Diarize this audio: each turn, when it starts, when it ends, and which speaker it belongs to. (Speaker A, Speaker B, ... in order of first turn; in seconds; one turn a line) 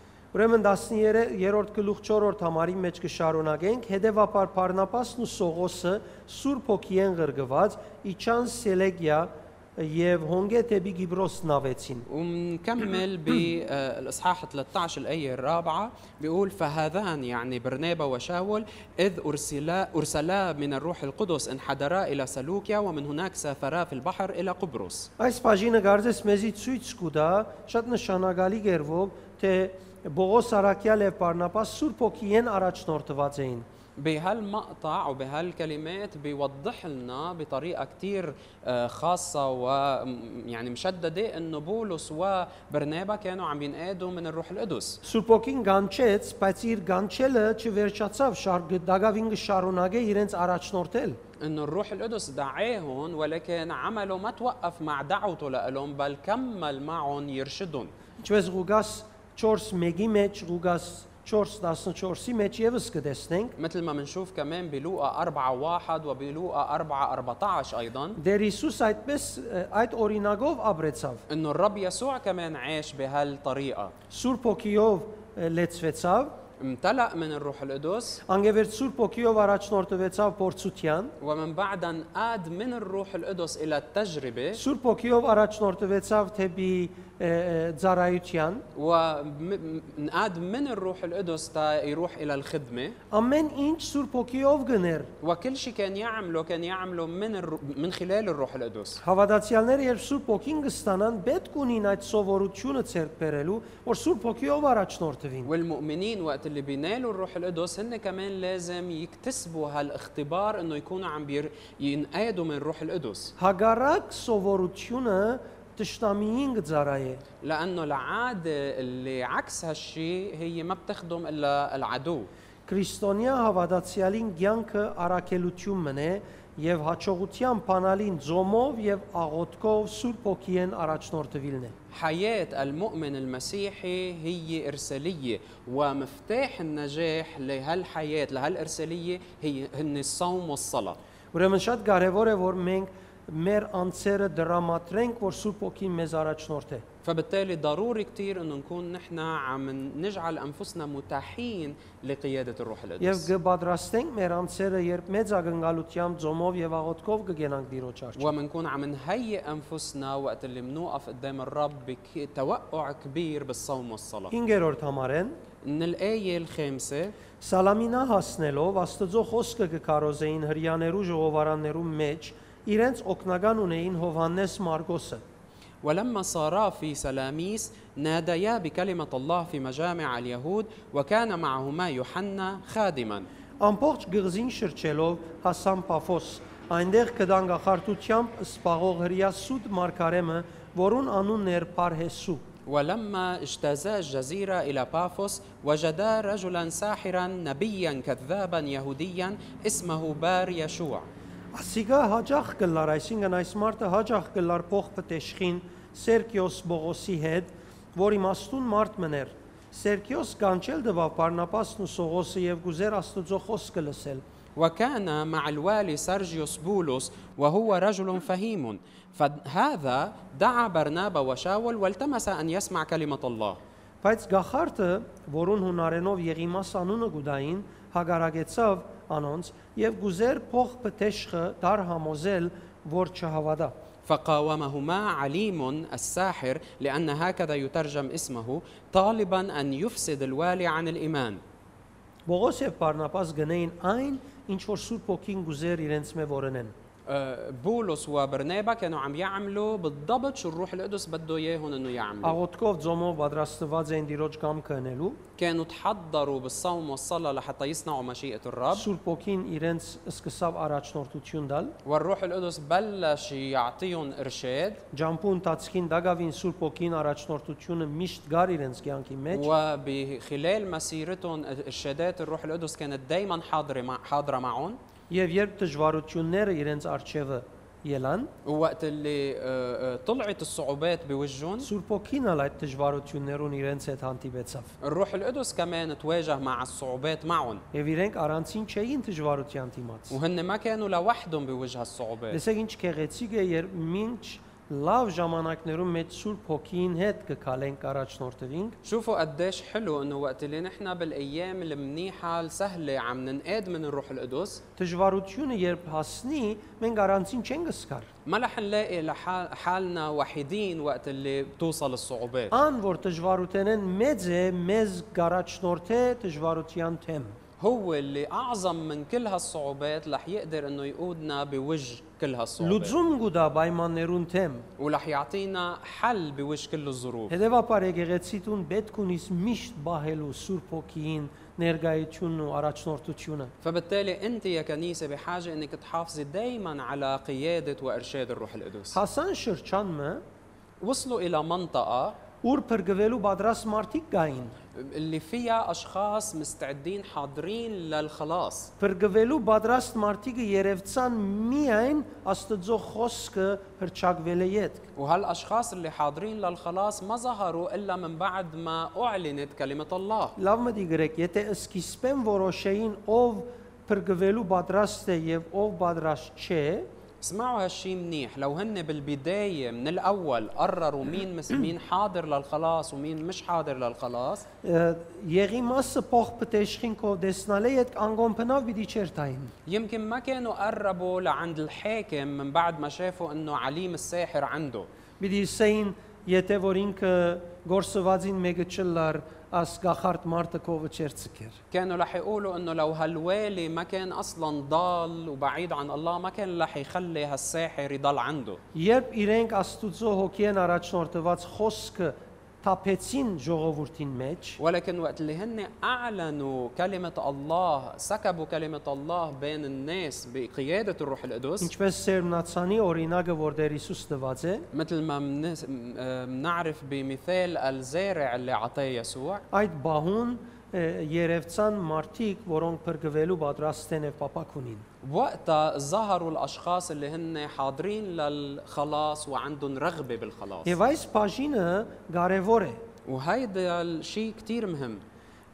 Speaker A: 0.3-12.1
Speaker B: 12.1-25.1
Speaker A: 25.2-33.6
Speaker B: 34.0-45.0
Speaker A: 45.0-51.2
Speaker B: 51.4-57.9
Speaker A: 58.2-63.6
Speaker B: 63.6-68.2
Speaker A: 68.2-71.2
Speaker B: 71.3-73.9
Speaker A: 74.1-76.3
Speaker B: 76.6-78.2
Speaker A: 78.3-81.1
Speaker B: 81.2-84.6
Speaker A: 84.6-88.7
Speaker B: 88.8-93.0
Speaker A: 93.1-95.1
Speaker B: 95.2-99.0
Speaker A: 99.0-105.5
Speaker B: 105.5-113.3
Speaker A: 113.4-117.2
Speaker B: 117.4-122.3
Speaker A: 122.7-131.7
Speaker B: 131.9-141.0
Speaker A: 141.3-146.8
Speaker B: 147.0-153.3
Speaker A: 153.0-158.3
Speaker B: 158.2-164.3
Speaker A: 164.3-165.4
Speaker B: 165.6-167.2
Speaker A: 167.4-175.2
Speaker B: 175.8-183.3
Speaker A: 183.6-192.4
Speaker B: 192.7-201.1
Speaker A: 201.6-214.2
Speaker B: 214.6-223.6
Speaker A: 224.0-233.7
Speaker B: 234.1-241.4
Speaker A: 242.3-246.7
Speaker B: 247.1-252.4
Speaker A: 252.2-255.2
Speaker B: 255.4-258.9
Speaker A: 258.7-261.8
Speaker B: 261.9-264.8
Speaker A: 264.9-269.5
Speaker B: 269.3-274.8
Speaker A: 275.1-278.3
Speaker B: 278.4-281.7
Speaker A: 281.6-284.7
Speaker B: 284.8-287.6
Speaker A: 287.7-290.2
Speaker B: 290.1-292.4
Speaker A: 292.3-298.8
Speaker B: 298.8-304.6
Speaker A: 304.8-308.1
Speaker B: 308.3-312.5
Speaker A: 312.5-317.4
Speaker B: 317.6-322.9
Speaker A: 322.6-324.7
Speaker B: 324.8-327.3
Speaker A: 327.3-333.5
Speaker B: 333.6-339.0
Speaker A: 338.9-340.2
Speaker B: 340.8-342.2
Speaker A: 342.4-344.6
Speaker B: 344.8-348.7
Speaker A: 348.8-354.9
Speaker B: 355.0-360.4
Speaker A: 360.4-366.9
Speaker B: 367.2-374.4
Speaker A: 374.6-379.5
Speaker B: 379.7-384.9
Speaker A: 385.2-391.6
Speaker B: 391.7-398.6
Speaker A: 398.8-404.6
Speaker B: 404.6-411.7
Speaker A: 411.6-414.7
Speaker B: 414.7-419.4
Speaker A: 419.5-424.8
Speaker B: 425.0-430.8
Speaker A: 430.6-432.8
Speaker B: 433.1-435.0